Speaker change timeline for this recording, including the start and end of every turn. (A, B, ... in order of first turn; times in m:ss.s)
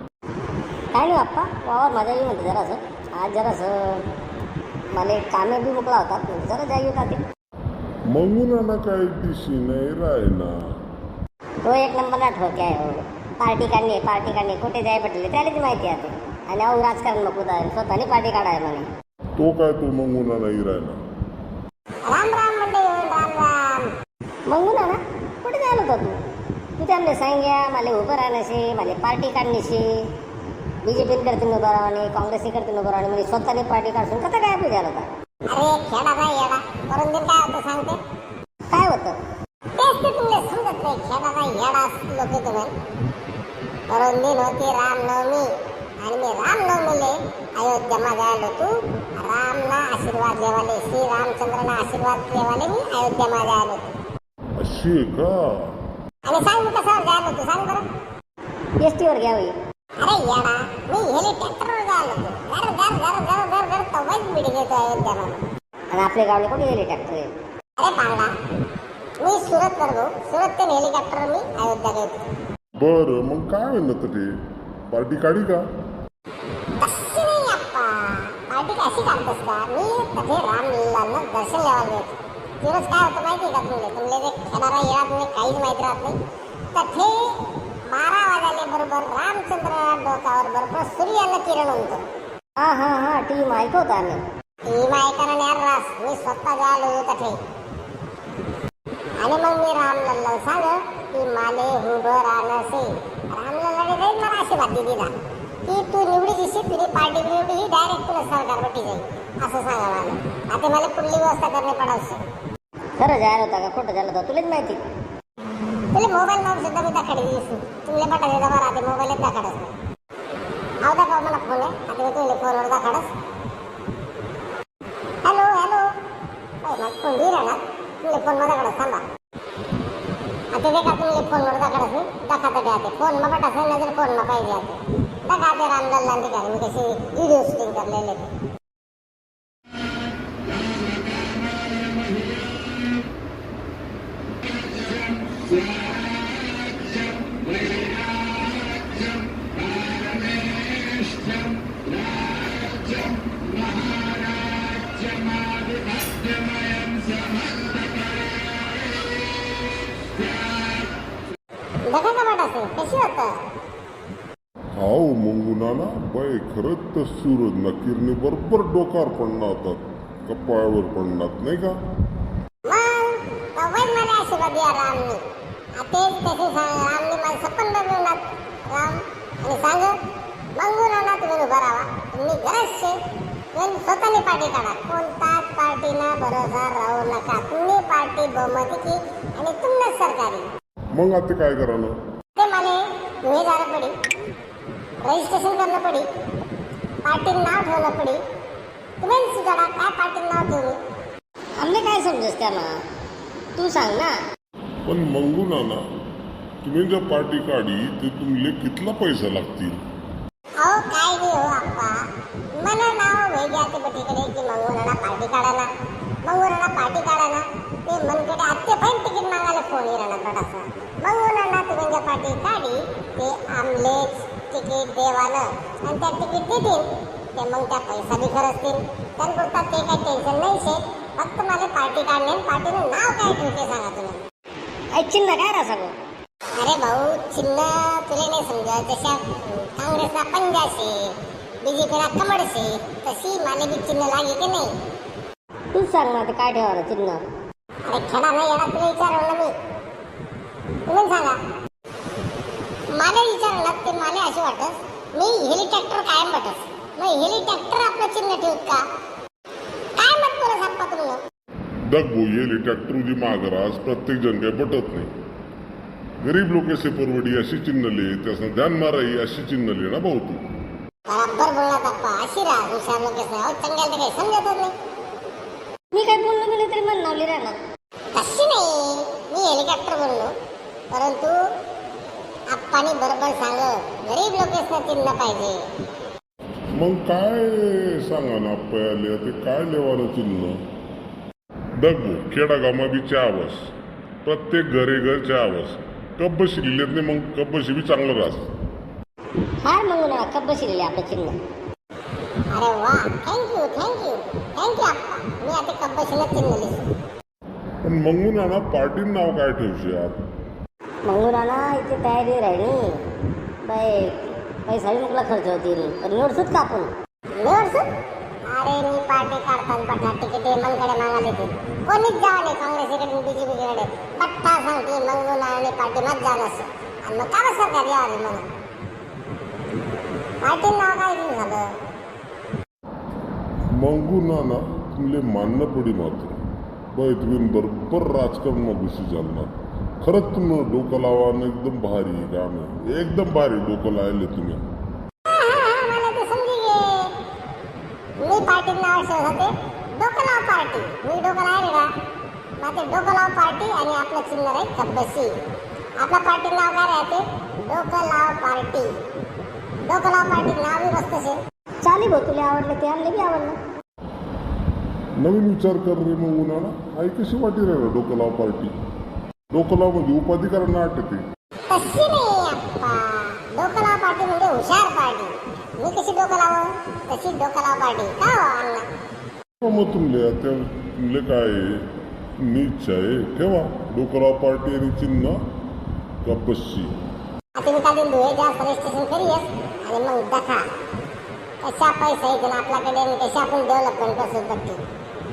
0:00.9-0:04.0 A
0:04.9-0:07.2 A
0:08.1-0:10.5 B
0:11.6-0:18.9 A
0:19.4-0:21.0 B
0:22.1-0:23.9 C
0:24.5-0:26.2 A
0:26.8-0:29.9 A
0:30.8-0:35.1 A
0:35.5-0:38.0 C
0:38.7-0:39.2 A
0:39.7-0:42.7 C
0:43.9-0:45.5 C
0:46.0-0:53.8 C
0:54.6-0:55.6 B
0:56.2-0:57.8 C
0:58.8-0:59.6 A
1:00.0-1:05.4 C
1:05.9-1:07.3 A
1:07.8-1:08.3 C
1:09.2-1:12.3 C
1:12.8-1:14.3 B
1:14.9-1:15.6 B
1:16.8-1:26.2 C
1:26.7-1:27.4 C
1:27.9-1:32.0 C
1:32.6-1:34.2 A
1:34.7-1:37.4 C
1:39.2-1:45.1 C
1:45.6-1:52.2 C
1:53.0-1:54.8 A
1:55.9-1:59.7 C
2:00.8-2:03.1 C
2:05.2-2:05.9 C
2:06.6-2:09.0 C
2:10.5-2:18.3 C
2:41.8-2:43.3 C
2:44.8-2:51.7 B
2:52.6-2:55.2 C
2:55.8-3:00.0 C
3:00.6-3:03.0 C
3:03.5-3:10.5 C
3:10.9-3:12.0 B
3:12.4-3:13.9 C
3:15.0-3:16.1 C
3:17.0-3:18.2 C
3:19.0-3:20.8 C
3:21.6-3:22.8 A
3:23.6-3:24.2 A
3:24.8-3:25.8 B
3:26.6-3:29.8 B
3:30.6-3:32.0 C
3:32.6-3:35.7 C
3:36.2-3:54.2 C
3:54.9-3:55.9 A
3:56.6-4:04.7 C
4:05.7-4:07.2 A
4:07.9-4:09.5 C
4:10.9-4:11.4 C
4:12.9-4:18.8 C
4:20.0-4:21.2 C
4:21.9-4:25.1 B
4:26.2-4:30.4 B
4:31.1-4:34.7 C
4:35.9-4:37.6 A
4:38.1-4:40.3 C
4:40.9-4:41.4 C
4:42.5-4:45.6 C
4:46.8-4:50.6 B
4:51.8-4:53.7 B
4:54.2-4:58.5 B
4:59.6-5:01.4 A
5:02.5-5:06.8 C
5:07.8-5:10.2 B
5:11.0-5:13.0 A
5:13.6-5:16.9 A
5:17.4-5:17.9 C
5:18.5-5:28.5 C
5:30.4-5:31.7 C
5:33.8-5:36.4 B
5:36.9-5:44.6 B
5:45.3-5:47.1 C
5:48.2-5:51.9 C
5:52.6-5:55.3 C
5:56.0-5:58.9 C
5:59.8-6:01.4 C
6:01.8-6:03.6 A
6:05.2-6:08.7 B
6:09.5-6:11.2 B
6:11.7-6:18.8 C
6:19.6-6:21.8 B
6:22.4-6:25.4 B
6:26.2-6:26.9 B
6:27.6-6:30.6 C
6:31.6-6:34.8 C